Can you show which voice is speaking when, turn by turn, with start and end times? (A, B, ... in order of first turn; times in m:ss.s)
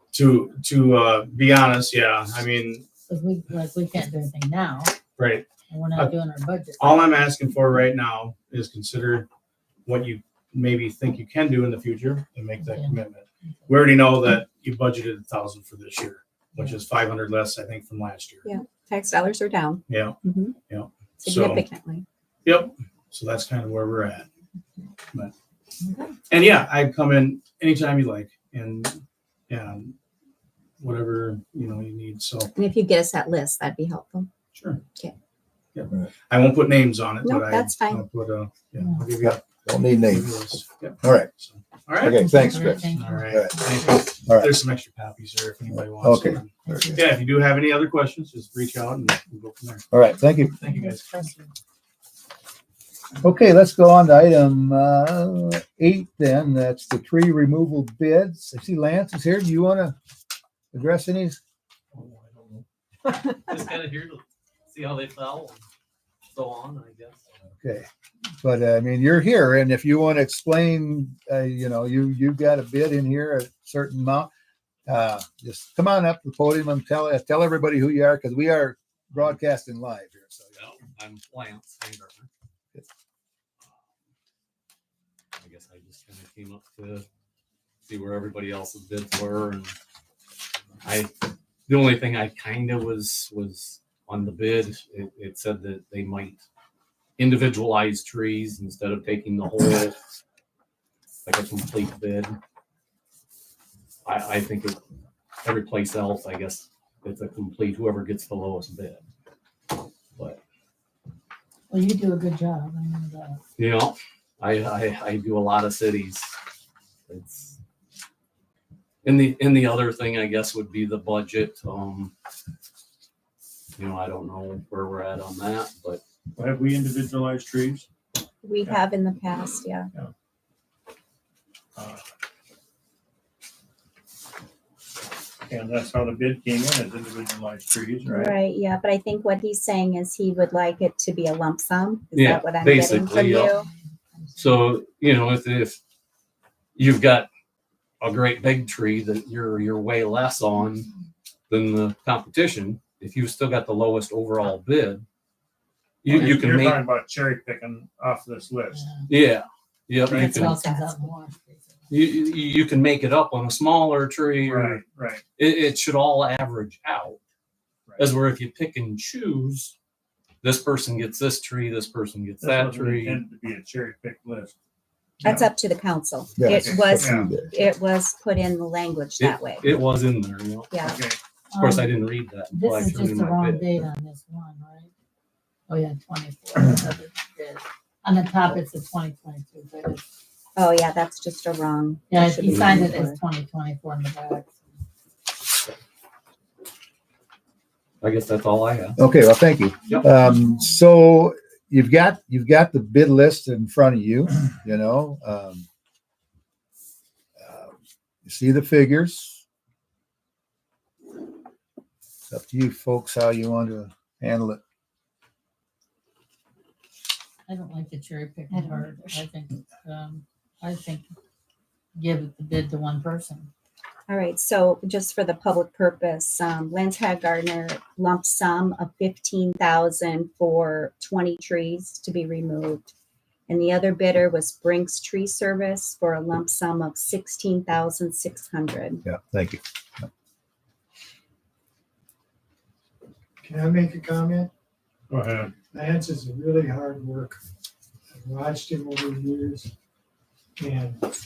0:00.1-0:02.8 A
0:03.1-0:04.9 B
0:05.2-0:06.1 A
0:05.7-0:07.1 B
0:06.8-0:09.3 A
0:09.9-0:18.5 A
0:12.6-0:13.0 B
0:13.5-0:13.8 B
0:18.4-0:20.6 C
0:19.9-0:21.6 A
0:21.2-0:22.0 C
0:22.4-0:24.3 A
0:26.3-0:29.9 A
0:30.8-0:32.5 A
0:32.6-0:34.3 C
0:34.5-0:34.8 A
0:35.7-0:49.9 A
0:37.2-0:38.0 C
0:39.2-0:40.3 D
0:41.0-0:41.3 D
0:42.0-0:43.5 D
0:42.1-0:44.0 B
0:44.3-0:44.5 D
0:45.7-0:47.0 D
0:46.6-0:47.1 B
0:49.9-0:50.6 D
0:50.6-0:51.4 A
0:50.6-0:51.5 B
0:53.2-1:00.0 D
1:00.7-1:01.4 D
1:01.9-1:02.6 E
1:03.2-1:05.6 F
1:06.2-1:07.2 F
1:07.6-1:07.9 D
1:08.4-1:14.3 D
1:14.9-1:20.7 D
1:20.6-1:22.3 F
1:25.4-1:27.1 F
1:27.9-1:29.8 F
1:30.8-1:31.1 F
1:31.7-1:36.4 F
1:37.2-1:40.0 F
1:41.3-1:42.4 F
1:44.0-1:44.8 F
1:45.4-1:49.0 F
1:51.7-1:53.4 B
1:53.6-1:56.3 F
1:57.1-1:57.6 F
1:59.0-2:02.1 F
2:03.8-2:06.0 F
2:06.4-2:07.9 E
2:08.4-2:09.9 C
2:11.8-2:12.0 E
2:15.5-2:18.4 E
2:18.0-2:23.7 C
2:22.2-2:23.5 F
2:23.2-2:24.7 B
2:24.4-2:25.8 F
2:26.8-2:27.3 F
2:28.0-2:30.9 F
2:31.5-2:35.0 F
2:36.0-2:36.8 F
2:36.1-2:38.8 E
2:38.7-2:39.1 B
2:39.1-2:40.6 F
2:40.1-2:41.1 C
2:40.1-2:41.8 B
2:41.9-2:44.8 F
2:44.4-2:45.2 E
2:45.4-2:47.2 F
2:48.0-2:49.8 F
2:50.4-2:53.2 F
2:52.4-2:54.6 E
2:55.2-2:59.8 C
2:56.4-2:57.5 D
2:56.5-2:57.4 E
2:59.2-3:00.9 F
3:00.7-3:01.0 C
3:00.8-3:01.2 E
3:01.5-3:01.9 B
3:01.6-3:03.8 F
3:02.5-3:04.9 B
3:05.7-3:10.0 B
3:10.6-3:13.2 C
3:12.1-3:14.5 B
3:12.5-3:12.8 F
3:18.0-3:19.0 F
3:19.0-3:25.6 D
3:27.4-3:27.7 D
3:28.2-3:29.4 D
3:32.3-3:34.6 D
3:37.5-3:41.1 B
3:38.5-3:39.2 C
3:42.0-3:43.5 B
3:44.1-3:52.9 C
3:53.5-3:59.0 C
3:59.0-4:00.1 D
4:03.4-4:04.5 G
4:05.1-4:05.5 E
4:05.7-4:07.4 G
4:08.1-4:09.7 G
4:10.6-4:11.0 G